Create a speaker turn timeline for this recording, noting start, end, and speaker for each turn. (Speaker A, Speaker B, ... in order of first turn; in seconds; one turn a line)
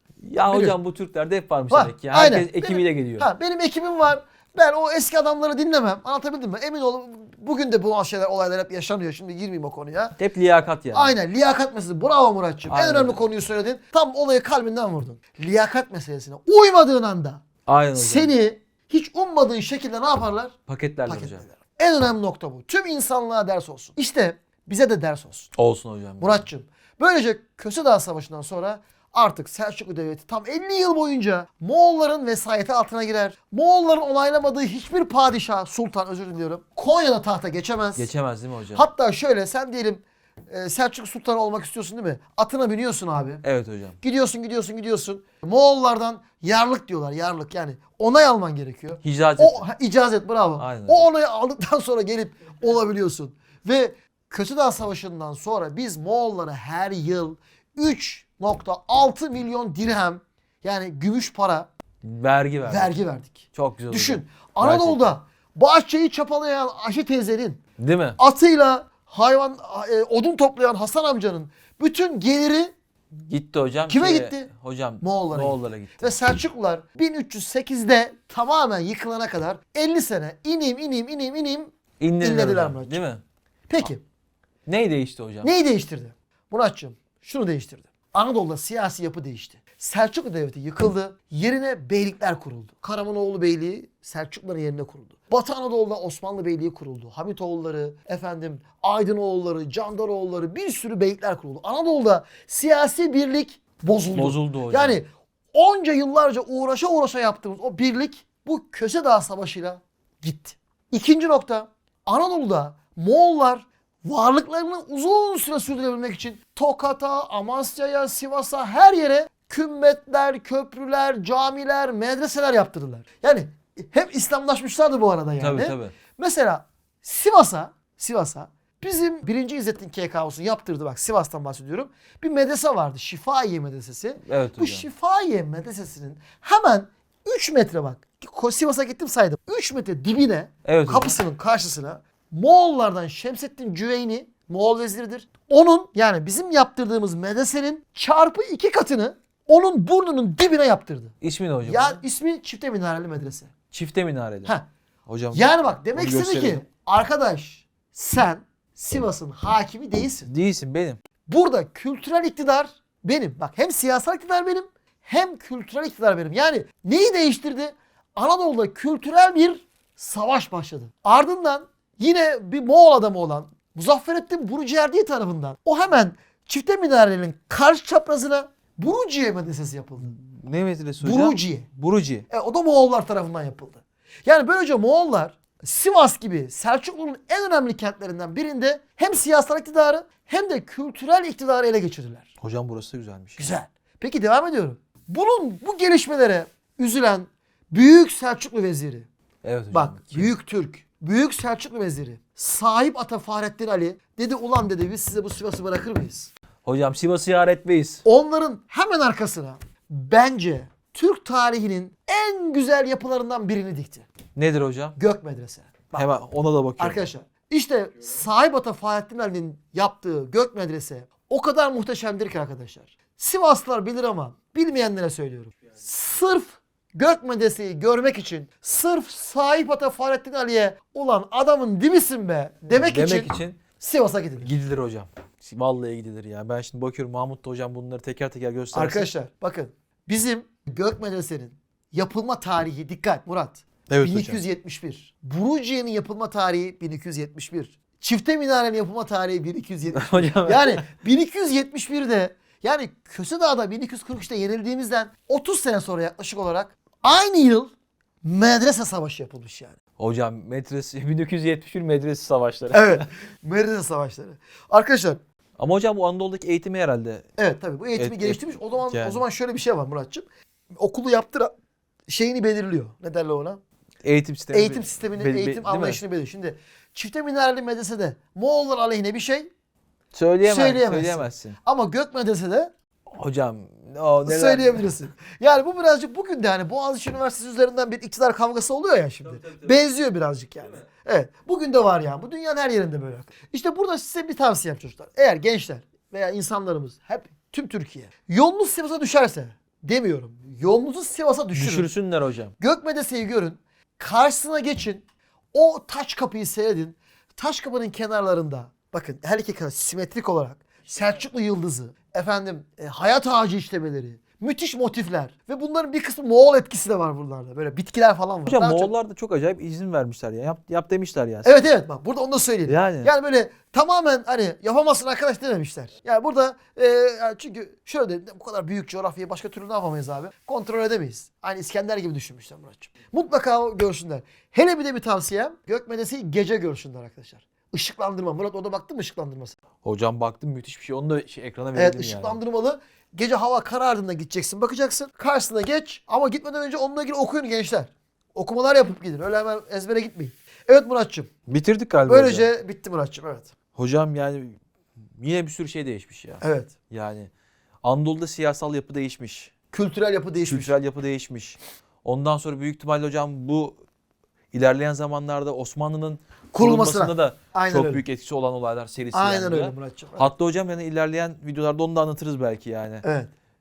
Speaker A: 0.2-3.3
Speaker B: 0.5-0.8
Speaker B: 1.7-10.2
Speaker A: 10.2-11.1
Speaker B: 10.9-17.4
Speaker A: 12.7-13.2
Speaker A: 17.6-18.3
Speaker B: 17.9-20.5
Speaker A: 20.7-21.4
Speaker B: 21.1-25.5
Speaker A: 25.6-26.4
Speaker B: 26.2-38.1
Speaker A: 38.0-38.9
Speaker B: 38.7-43.4
Speaker A: 43.4-44.0
Speaker B: 44.0-61.7
Speaker A: 49.0-49.6
Speaker A: 50.6-51.1
Speaker A: 62.0-63.0
Speaker B: 62.6-67.6
Speaker A: 63.5-65.1
Speaker A: 67.8-68.2
Speaker B: 68.2-72.7
Speaker A: 73.1-76.1
Speaker B: 73.9-74.5
Speaker B: 75.0-83.0
Speaker A: 82.0-83.2
Speaker B: 83.7-84.0
Speaker A: 84.7-85.5
Speaker B: 85.4-151.1
Speaker A: 104.1-105.0
Speaker A: 125.4-125.9
Speaker A: 134.2-134.9
Speaker A: 140.6-141.2
Speaker A: 151.2-152.0
Speaker B: 151.7-153.5
Speaker A: 153.7-154.5
Speaker A: 155.1-156.6
Speaker B: 155.3-160.3
Speaker A: 160.2-161.0
Speaker B: 161.3-180.1
Speaker A: 180.0-182.2
Speaker B: 181.0-181.7
Speaker B: 182.3-192.3
Speaker A: 192.4-193.5
Speaker B: 193.4-199.1
Speaker A: 199.4-200.3
Speaker B: 199.7-206.3
Speaker A: 206.6-208.0
Speaker B: 208.0-214.1
Speaker A: 214.3-214.9
Speaker B: 214.9-216.1
Speaker A: 215.9-217.1
Speaker B: 216.8-234.5
Speaker A: 232.7-233.6
Speaker A: 234.4-239.1
Speaker B: 238.7-257.7
Speaker A: 243.9-244.4
Speaker A: 249.9-250.8
Speaker B: 258.2-259.8
Speaker A: 260.0-263.1
Speaker B: 262.7-265.2
Speaker A: 265.6-267.2
Speaker B: 267.4-271.5
Speaker A: 268.0-269.2
Speaker B: 272.1-273.6
Speaker A: 274.0-276.0
Speaker B: 274.5-279.5
Speaker A: 280.1-281.6
Speaker B: 280.4-282.7
Speaker A: 283.1-284.8
Speaker B: 284.2-301.9
Speaker A: 289.3-289.7
Speaker A: 301.5-302.5
Speaker B: 302.6-318.9
Speaker A: 318.4-321.5
Speaker B: 321.4-339.6
Speaker A: 322.7-323.1
Speaker A: 339.8-342.4
Speaker B: 341.7-351.3
Speaker A: 351.5-352.4
Speaker B: 352.1-353.5
Speaker A: 353.8-354.6
Speaker A: 355.2-357.3
Speaker B: 356.4-356.7
Speaker A: 357.8-359.5
Speaker B: 359.7-360.7
Speaker A: 360.5-363.8
Speaker A: 364.5-373.0
Speaker B: 366.5-368.0
Speaker B: 369.1-370.3
Speaker B: 373.0-373.3